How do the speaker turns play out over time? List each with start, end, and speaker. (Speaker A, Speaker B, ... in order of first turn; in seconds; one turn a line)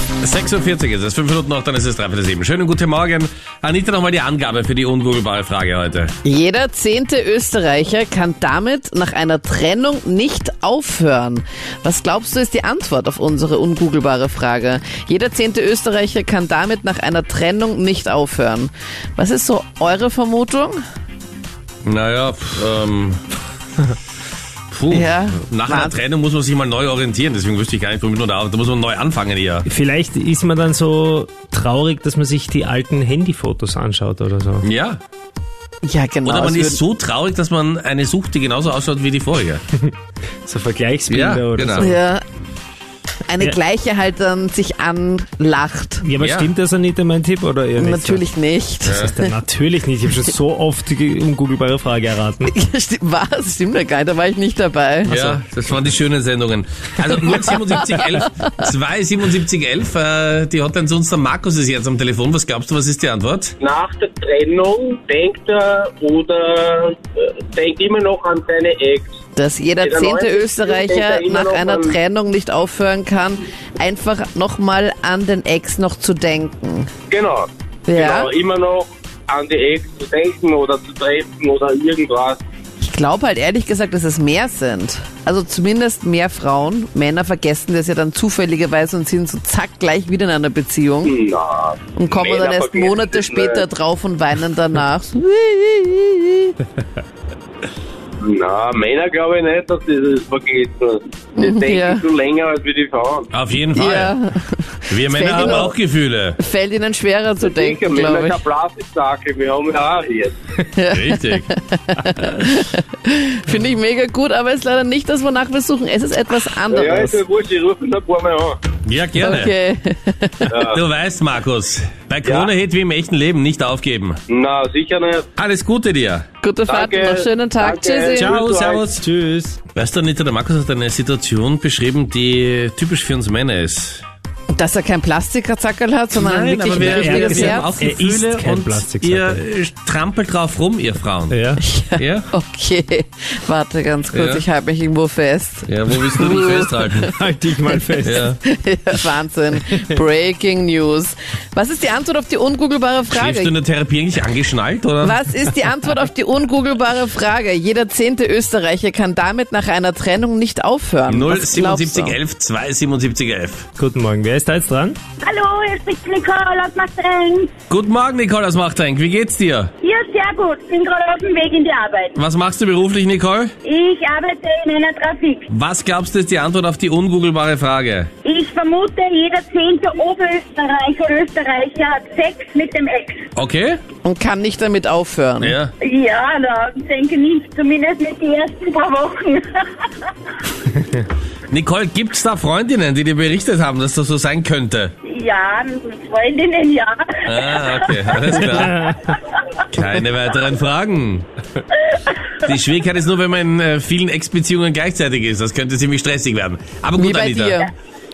Speaker A: 0.2-6.1
Speaker B: 6.2-20.8
Speaker A: 21.8-23.2
Speaker A: 24.7-29.7
Speaker B: 24.9-26.0
Speaker C: 29.7-34.7
Speaker A: 34.6-35.0
Speaker B: 35.8-36.8
Speaker A: 36.2-39.6
Speaker C: 40.4-42.0
Speaker A: 41.1-41.9
Speaker B: 41.8-42.2
Speaker B: 43.3-46.0
Speaker C: 46.0-48.3
Speaker A: 46.2-46.5
Speaker B: 47.8-49.3
Speaker A: 48.9-49.1
Speaker C: 48.9-52.5
Speaker B: 52.5-55.3
Speaker A: 55.0-63.5
Speaker D: 63.6-69.2
Speaker B: 69.3-76.9
Speaker D: 69.8-72.0
Speaker D: 77.1-82.4
Speaker B: 77.9-78.3
Speaker B: 82.8-91.1
Speaker D: 91.0-93.7
Speaker B: 92.0-96.5
Speaker D: 98.2-103.3
Speaker B: 101.4-102.0
Speaker A: 103.3-104.2
Speaker B: 103.7-105.8
Speaker A: 104.9-106.4
Speaker B: 106.4-108.4
Speaker D: 107.4-110.4
Speaker B: 110.6-117.2
Speaker A: 110.9-111.5
Speaker D: 116.7-118.6
Speaker A: 118.8-119.5
Speaker B: 119.2-120.6
Speaker D: 120.5-120.8
Speaker A: 120.6-124.2
Speaker D: 124.3-125.3
Speaker A: 125.4-126.2
Speaker B: 126.4-128.4
Speaker D: 126.7-128.9
Speaker A: 128.2-129.0
Speaker C: 129.0-129.6
Speaker A: 129.8-134.0
Speaker B: 134.5-137.7
Speaker A: 136.1-141.4
Speaker C: 136.8-139.4
Speaker C: 141.3-141.6
Speaker B: 141.6-146.9
Speaker A: 142.0-142.2
Speaker A: 144.1-144.4
Speaker A: 145.7-147.1
Speaker C: 147.1-148.3
Speaker A: 148.0-148.4
Speaker B: 148.4-153.5
Speaker A: 153.1-155.2
Speaker B: 155.0-162.2
Speaker A: 161.1-163.7
Speaker C: 163.8-165.0
Speaker E: 165.2-167.5
Speaker A: 167.7-169.7
Speaker E: 169.8-172.2
Speaker A: 172.2-173.5
Speaker E: 173.6-175.5
Speaker A: 175.5-178.1
Speaker E: 178.2-183.3
Speaker A: 183.3-183.8
Speaker B: 184.0-185.6
Speaker A: 185.4-185.7
Speaker E: 185.8-189.9
Speaker A: 191.5-194.9
Speaker E: 195.0-198.0
Speaker A: 197.2-198.9
Speaker A: 199.7-201.3
Speaker A: 202.4-207.6
Speaker B: 207.0-207.7